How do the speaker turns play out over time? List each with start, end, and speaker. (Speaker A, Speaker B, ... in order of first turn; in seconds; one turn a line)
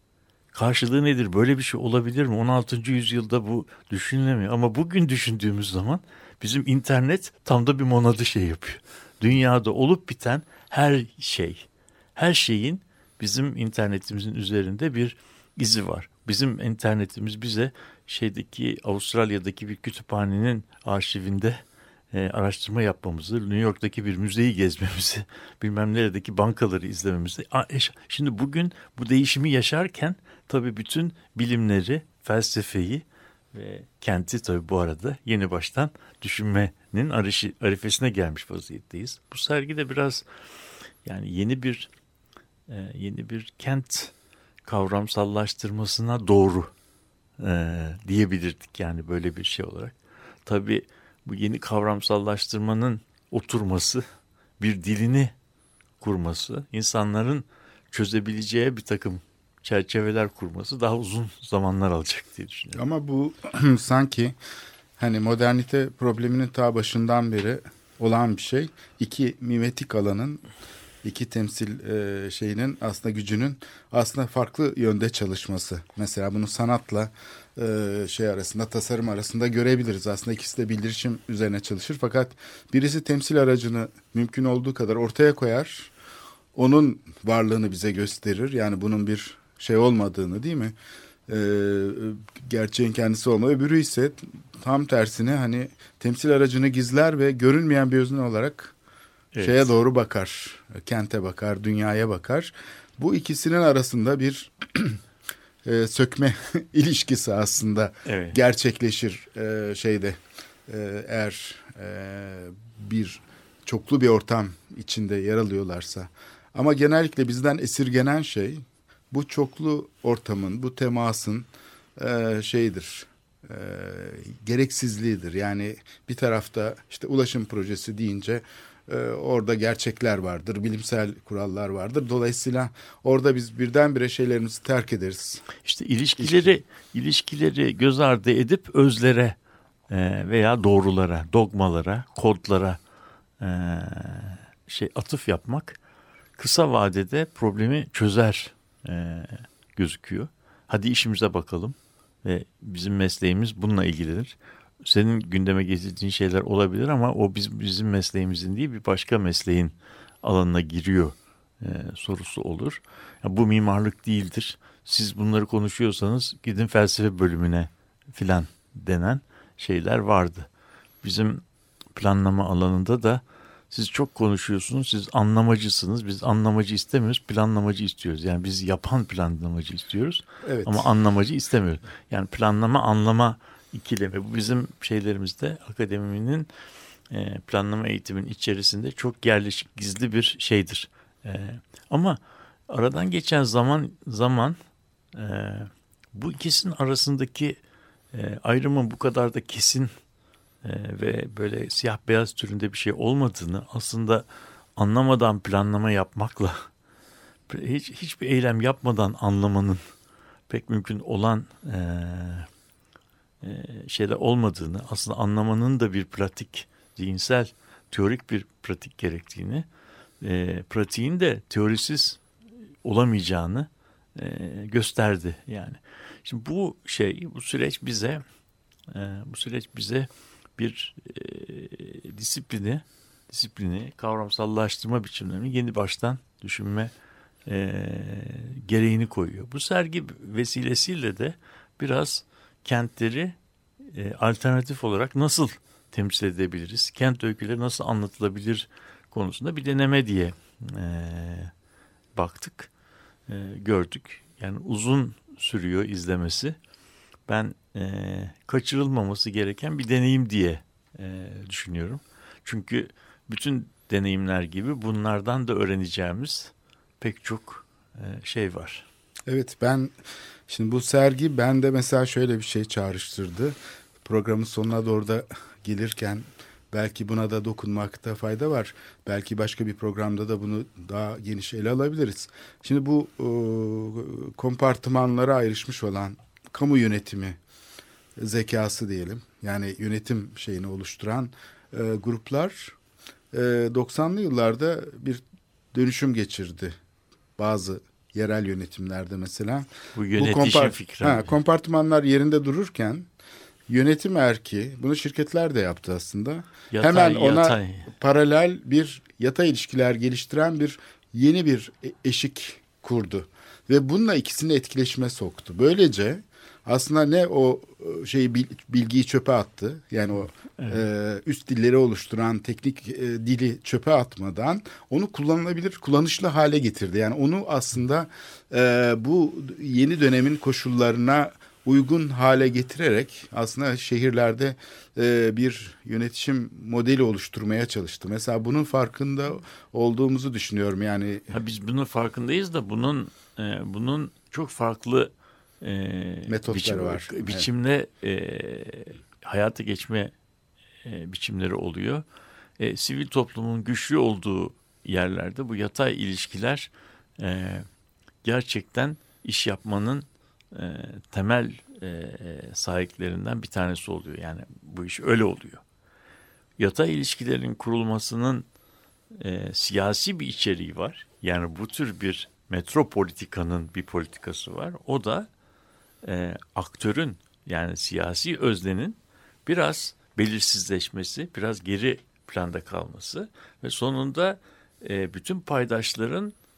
Speaker A: 0.5-21.6
Speaker A: 22.1-40.2
Speaker A: 41.0-41.9
Speaker A: 42.7-44.1
Speaker A: 44.6-46.7
Speaker A: 47.4-50.0
Speaker A: 50.5-54.0
Speaker A: 54.6-55.3
Speaker A: 56.0-62.8
Speaker B: 62.7-64.4
Speaker B: 65.0-70.4
Speaker B: 71.0-85.9
Speaker B: 86.5-90.7
Speaker B: 91.3-98.8
Speaker A: 99.3-99.7
Speaker B: 99.4-105.0
Speaker B: 105.7-135.5
Speaker A: 108.1-108.4
Speaker A: 135.6-139.4
Speaker B: 136.2-136.6
Speaker A: 139.9-142.8
Speaker A: 143.4-145.8
Speaker A: 146.4-170.5
Speaker A: 171.0-171.4
Speaker A: 171.9-186.5
Speaker B: 180.4-180.9
Speaker A: 187.1-192.2
Speaker A: 192.7-194.6
Speaker A: 195.1-197.6
Speaker A: 198.1-199.9
Speaker A: 200.6-206.7
Speaker A: 207.5-209.8
Speaker A: 210.5-212.5
Speaker A: 213.4-219.7
Speaker A: 220.2-222.2
Speaker A: 222.8-228.2
Speaker A: 228.9-236.9
Speaker A: 237.5-243.3
Speaker A: 243.9-251.5
Speaker A: 252.2-252.7
Speaker A: 253.3-256.6
Speaker A: 257.3-268.9
Speaker B: 269.3-269.9
Speaker B: 270.5-287.4
Speaker B: 288.2-292.8
Speaker B: 293.3-295.2
Speaker B: 295.7-296.8
Speaker B: 297.4-303.1
Speaker A: 300.0-301.3
Speaker B: 303.7-341.4
Speaker A: 306.7-307.9
Speaker A: 341.3-350.1
Speaker B: 346.3-347.5
Speaker A: 350.9-352.0
Speaker A: 352.6-357.7
Speaker A: 358.2-365.6
Speaker A: 366.6-368.5
Speaker A: 369.2-375.3
Speaker A: 376.0-386.3